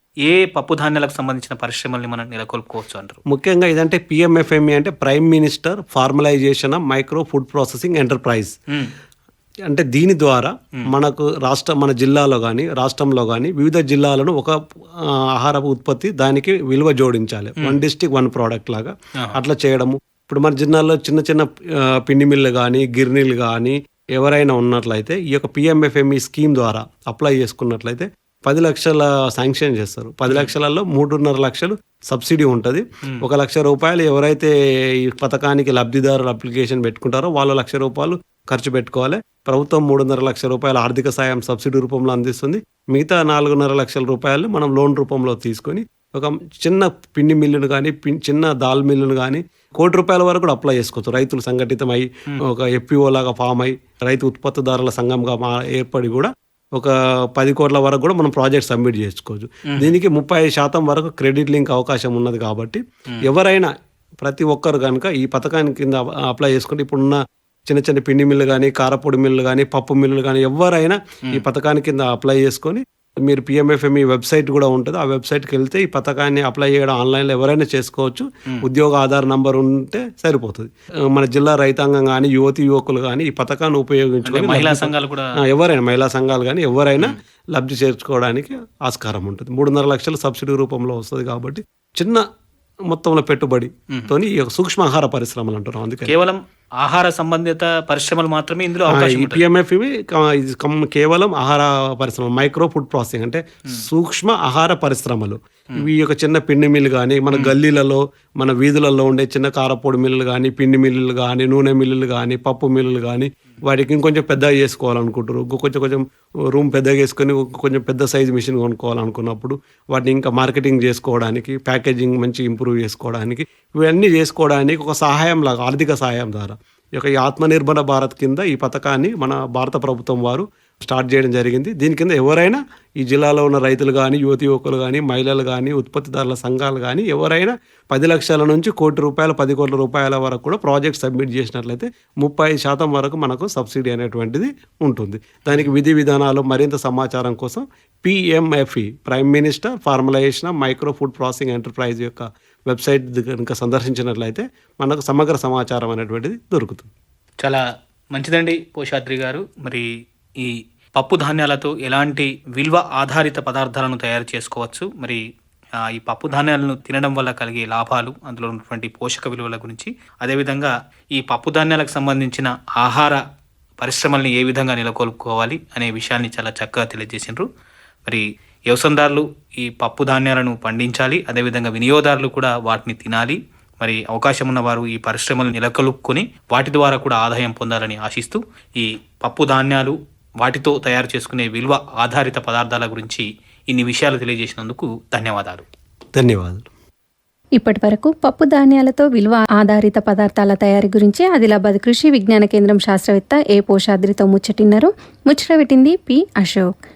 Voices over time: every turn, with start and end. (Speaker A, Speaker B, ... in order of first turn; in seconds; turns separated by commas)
Speaker A: 0.2-3.2, Speaker B: 3.3-8.6, Speaker B: 9.7-14.5, Speaker B: 15.4-34.5, Speaker B: 35.2-63.7, Speaker B: 64.2-92.2, Speaker A: 84.2-85.3, Speaker B: 92.9-96.1, Speaker A: 96.1-99.4, Speaker B: 98.9-156.9, Speaker A: 157.4-159.9, Speaker A: 160.4-165.2, Speaker A: 165.9-173.2, Speaker A: 173.8-177.5, Speaker A: 178.1-195.7, Speaker B: 196.2-196.7, Speaker C: 197.6-206.7